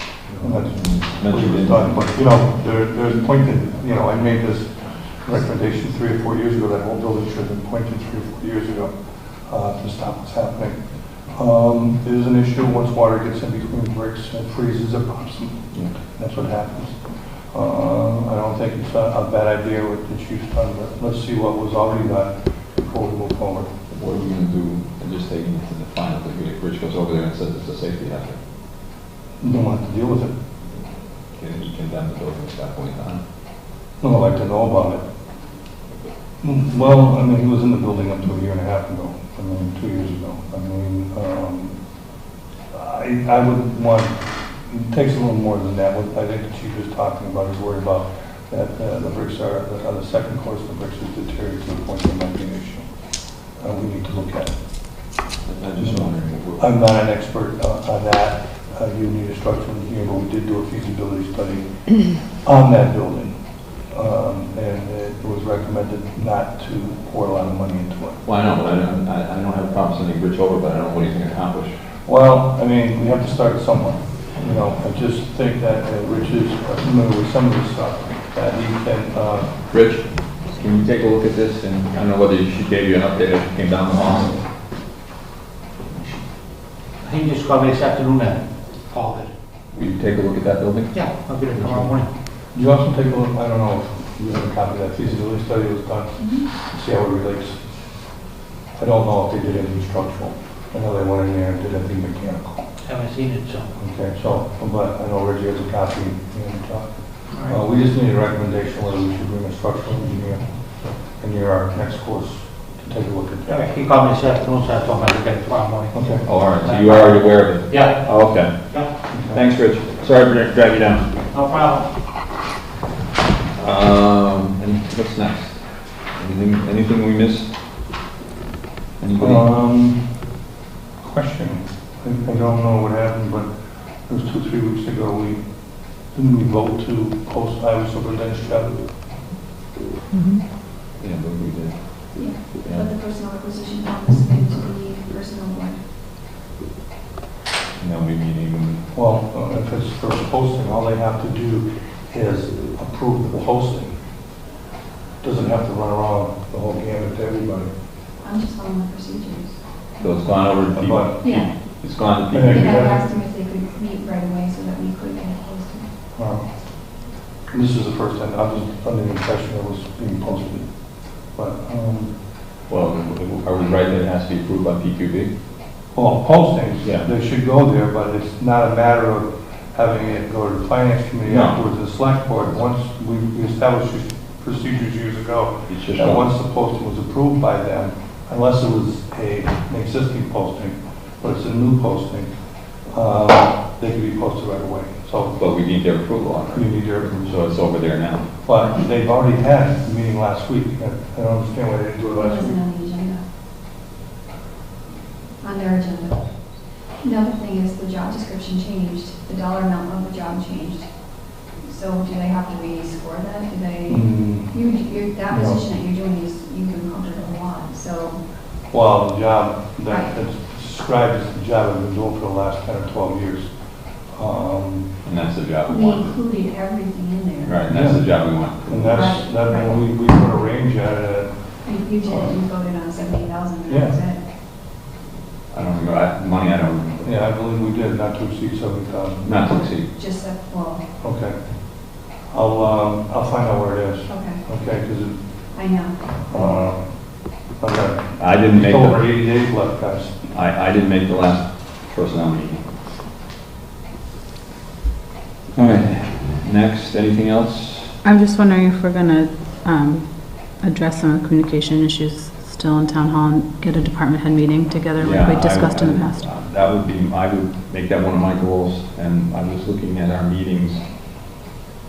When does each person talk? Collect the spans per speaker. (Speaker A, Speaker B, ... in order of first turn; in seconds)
Speaker A: 0.3-8.9, 9.4-10.8, 11.3-23.7, 29.4-30.3, 34.0-35.0, 36.4-41.8, 42.7-52.9, 53.5-54.5, 55.8-63.3, 63.9-68.2, 72.0-79.5, 92.5-97.6, 98.8-102.6, 103.8-110.5, 111.0-113.6, 115.9-116.3, 119.1-119.4, 129.2-130.2, 131.0-133.5, 134.1-138.8, 148.9-153.9, 155.2-157.7, 160.7-161.1, 162.3-163.0, 166.1-172.2, 175.9-192.3, 192.9-195.4, 196.5-197.3, 198.4-202.6, 213.9-214.5, 215.3-215.6, 218.7-223.5, 224.1-224.9, 227.7-231.3, 233.7-234.0, 237.0-239.3, 241.0-245.2, 246.3-250.2
Speaker B: 0.7-2.0, 23.9-28.4, 31.3-33.2, 55.4-56.6, 68.2-71.9, 79.7-84.4, 89.7-91.0, 91.5-91.9, 116.2-121.1, 123.5-127.5, 129.0-129.5, 141.0-142.9, 147.8-148.8, 160.0-162.9, 172.7-175.3, 176.8-177.1, 181.3-181.6, 185.7-186.2, 195.4-198.3, 225.0-226.1, 227.4-229.1, 235.5-237.1, 239.2-239.9, 248.2-249.1, 250.3-252.7, 255.5-257.9, 265.0-270.8
Speaker C: 87.0-89.3, 90.9-92.1, 102.8-103.7, 107.3-107.6, 113.5-115.9, 116.6-118.9, 121.3-121.9
Speaker D: 96.2-96.5, 142.1-145.8, 158.2-159.6, 161.2-161.5, 162.5-165.9, 202.2-203.2, 205.4-218.2, 225.7-227.6, 228.8-229.8, 231.6-234.2, 239.4-240.8, 244.1-244.4, 245.5-246.0
Speaker E: 258.0-266.2